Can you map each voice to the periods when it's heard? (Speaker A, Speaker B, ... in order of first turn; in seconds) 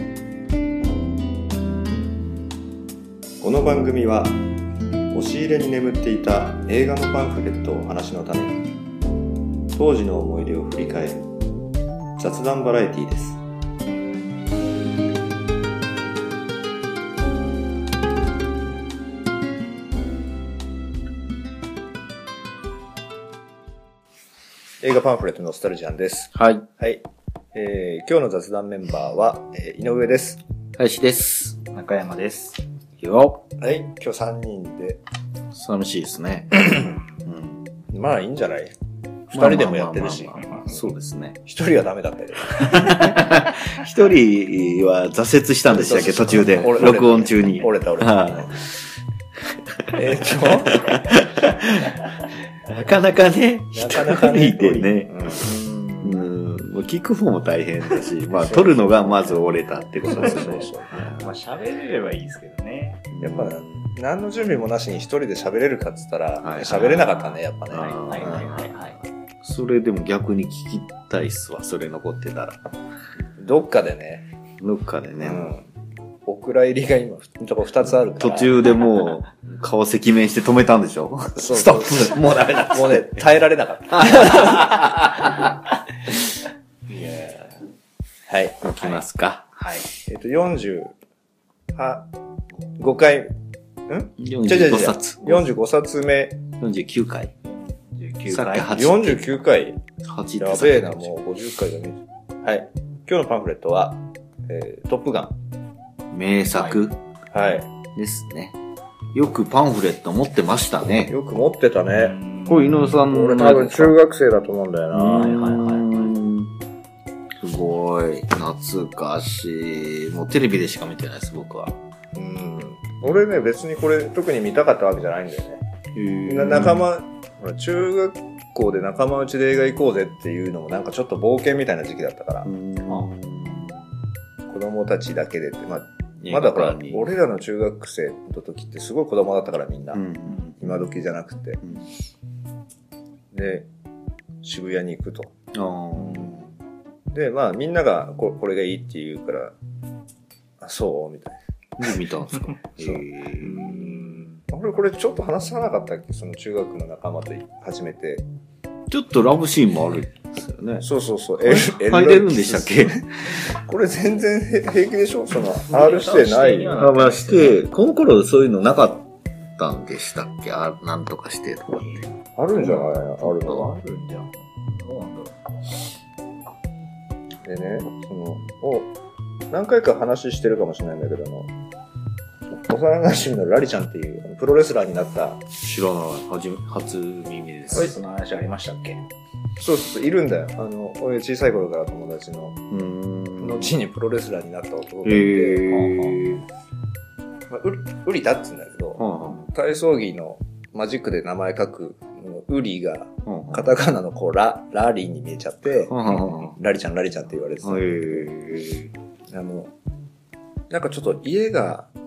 Speaker A: 3.4-4.4, 5.1-8.6, 9.7-11.3, 12.2-13.4, 24.8-30.4, 33.6-35.0, 37.9-38.7, 39.3-40.8, 41.5-43.2, 45.7-48.6, 49.9-51.0, 53.7-55.5, 58.3-59.4, 60.0-61.0, 63.2-68.4, 73.4-74.2, 75.2-75.6, 76.2-78.6, 81.4-84.9, 88.3-88.6, 90.1-90.9, 91.7-92.1, 92.8-93.3, 93.9-96.4, 98.7-99.8, 100.4-105.3, 107.3-107.7, 111.1-112.2, 113.0-115.3, 122.1-125.6, 126.3-132.5, 134.5-140.0, 140.6-141.6, 143.3-143.7, 144.4-145.3, 147.1-149.5, 150.6-151.4, 152.8-158.2, 160.8-163.0, 163.6-166.8, 172.4-173.8, 177.4-178.9, 179.5-181.5, 182.6-185.4, 189.6-192.6, 193.4-195.6, 197.5-208.3, 209.3-209.7, 210.7-211.9
Speaker B: 26.3-26.6, 30.8-31.6, 33.0-33.4, 35.5-37.6, 39.3-41.4, 42.5-48.8, 49.8-52.0, 52.6-55.5, 56.0-61.3, 63.1-64.0, 66.4-67.1, 67.7-72.6, 74.6-75.5, 78.1-83.2, 83.9-85.5, 88.6-89.5, 94.2-95.5, 96.6-97.3, 98.3-99.4, 100.0-101.1, 106.1-107.0, 108.0-108.6, 109.1-111.1, 112.5-114.0, 114.9-116.5, 117.4-121.8, 125.9-126.9, 132.4-133.9, 136.2-137.1, 139.9-140.6, 141.6-141.9, 145.5-146.5, 151.8-153.8, 158.9-160.9, 161.4-163.5, 166.8-169.1, 169.6-172.0, 185.6-187.9, 192.7-193.8, 195.0-196.4, 199.0-199.5, 203.2-203.7, 205.8-206.6, 207.6-208.9
Speaker C: 31.7-32.6, 55.4-56.3, 61.2-63.1, 66.7-69.0, 89.6-89.9, 97.5-98.8, 106.5-106.8, 111.9-113.0, 115.1-116.1, 153.5-154.4, 165.6-167.6, 171.8-172.1, 172.6-175.4, 187.7-189.0, 195.7-196.3